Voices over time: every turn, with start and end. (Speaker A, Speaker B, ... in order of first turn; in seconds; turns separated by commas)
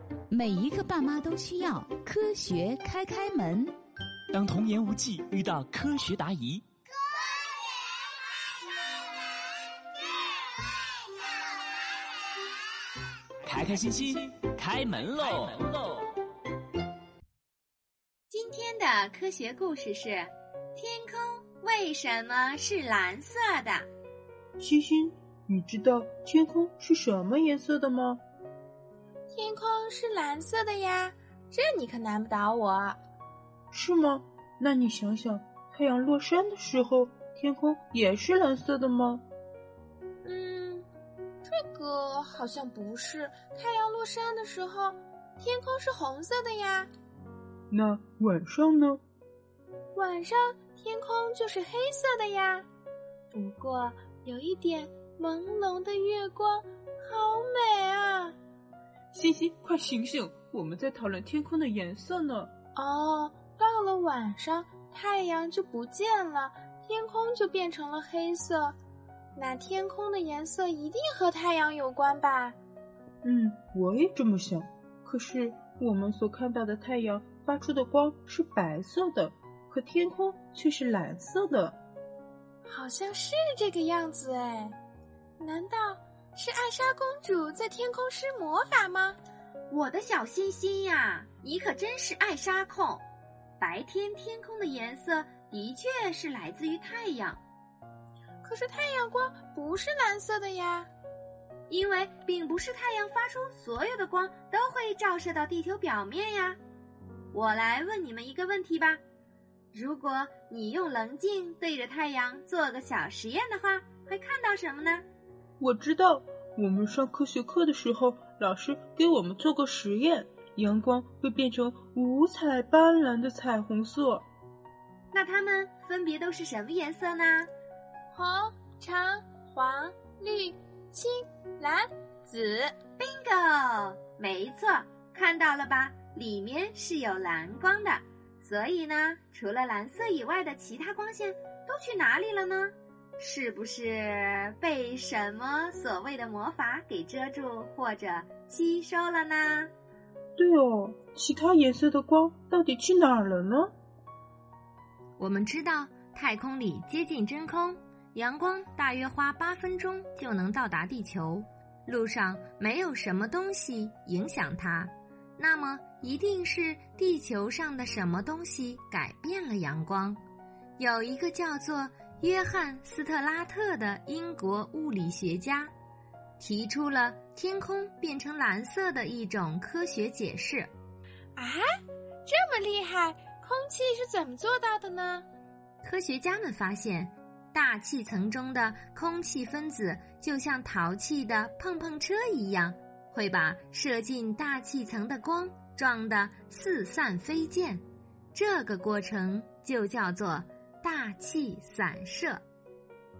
Speaker A: 0.3-3.7, Speaker B: 4.3-6.6, Speaker B: 13.4-16.0, Speaker C: 18.3-23.9, Speaker D: 24.6-28.2, Speaker E: 29.3-33.0, Speaker D: 33.7-39.2, Speaker E: 40.2-40.9, Speaker E: 41.4-46.9, Speaker D: 47.7-49.0, Speaker E: 49.9-52.6, Speaker E: 53.3-58.4, Speaker D: 59.1-62.5, Speaker E: 62.7-68.8, Speaker E: 69.3-72.5, Speaker D: 73.2-81.8, Speaker E: 82.7-84.8, Speaker E: 85.4-89.2, Speaker C: 89.7-93.0, Speaker C: 93.6-97.4, Speaker E: 98.4-100.9, Speaker C: 101.7-106.6, Speaker C: 107.3-109.0, Speaker C: 109.7-115.0, Speaker D: 115.6-124.2, Speaker C: 125.1-127.5, Speaker E: 128.1-132.8, Speaker C: 133.0-149.7, Speaker D: 150.3-153.7, Speaker C: 155.2-170.2, Speaker C: 170.8-175.7, Speaker C: 176.4-180.7, Speaker E: 181.3-181.6, Speaker E: 182.2-185.2, Speaker C: 185.8-197.8, Speaker C: 198.3-202.4